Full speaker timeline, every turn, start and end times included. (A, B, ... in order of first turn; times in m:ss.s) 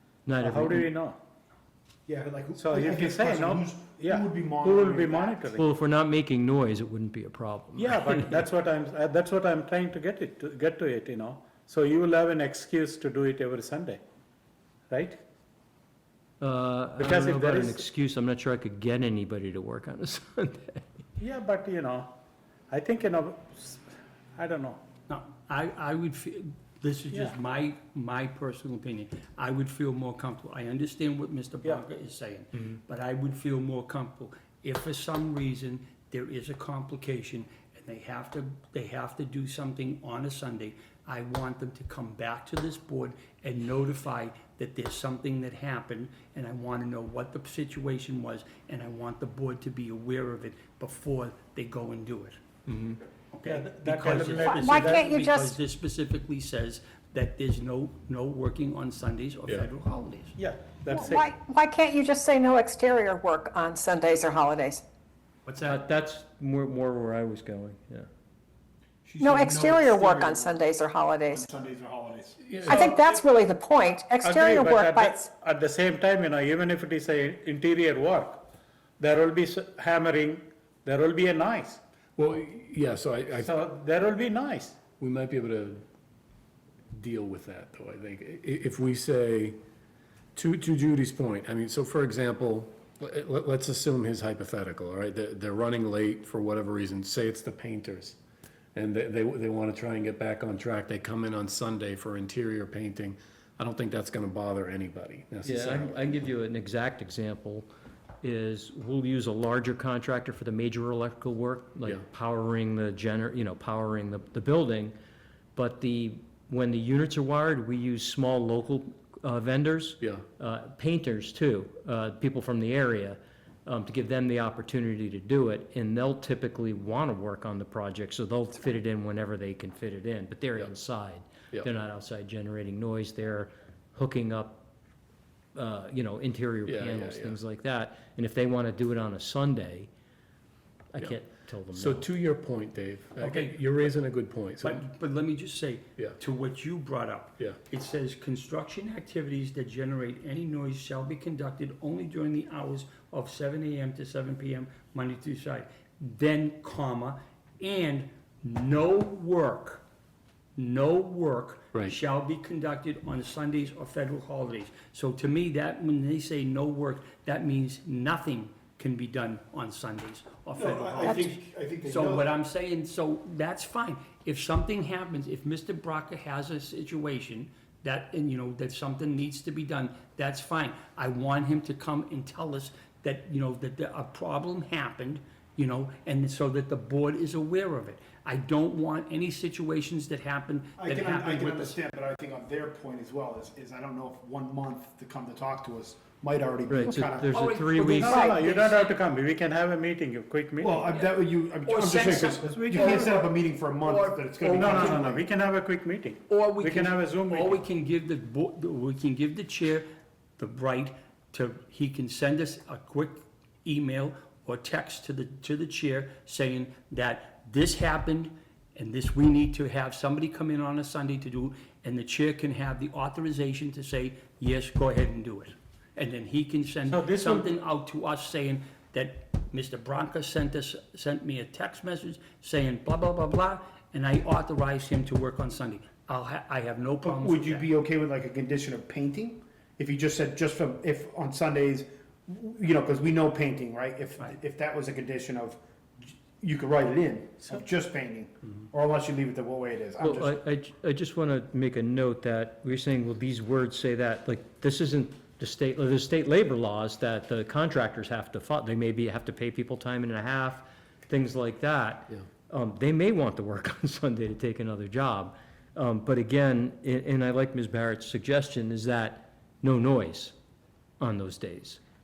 0:00.2-0:00.9 A
0:00.4-0:01.2 B
0:02.1-0:05.3 C
0:02.6-0:05.6 B
0:05.5-0:08.4 A
0:07.8-0:14.0 B
0:14.9-0:15.2 B
0:16.4-0:21.0 A
0:17.0-0:17.7 B
0:21.2-0:22.1 B
0:22.7-0:23.8 B
0:24.4-0:24.8 B
0:25.1-0:52.4 D
0:53.3-1:00.4 D
0:53.4-0:55.0 B
0:54.4-0:55.5 E
1:00.4-1:01.2 B
1:00.9-1:04.8 E
1:05.4-1:05.8 D
1:05.6-1:08.1 A
1:09.0-1:10.4 C
1:09.2-1:11.4 E
1:11.4-1:12.5 C
1:12.4-1:12.9 F
1:12.6-1:15.2 E
1:14.2-1:18.4 B
1:19.0-1:21.8 B
1:22.2-1:23.5 F
1:23.4-1:24.8 B
1:25.0-1:25.8 F
1:25.2-1:25.6 C
1:26.9-1:29.6 F
1:27.2-1:27.6 C
1:30.4-1:38.2 F
1:31.0-1:31.6 C
1:38.7-1:42.9 F
1:39.8-1:41.8 C
1:42.5-1:45.8 C
1:43.6-1:45.6 F
1:45.4-1:47.7 A
1:48.2-1:54.9 A
1:55.5-2:14.6 A
2:15.5-2:19.9 A
2:16.7-2:17.3 F
2:20.9-2:22.1 A
2:21.7-2:24.8 F
2:23.2-2:23.9 D
2:24.6-2:39.8 D
2:40.6-3:11.8 D
2:50.6-2:52.2 C
3:10.8-3:17.3 C
3:16.7-3:18.2 A
3:17.3-3:19.0 D
3:17.8-3:20.8 B
3:18.1-3:18.4 E
3:20.6-3:25.2 C
3:20.8-3:25.1 D
3:22.4-3:23.0 B
3:24.5-3:27.6 B
3:26.3-3:29.9 D
3:30.4-3:57.7 D
3:46.9-3:47.4 B
3:57.1-4:05.6 C
4:06.3-4:10.4 C
4:10.0-4:30.3 A
4:31.0-4:31.8 A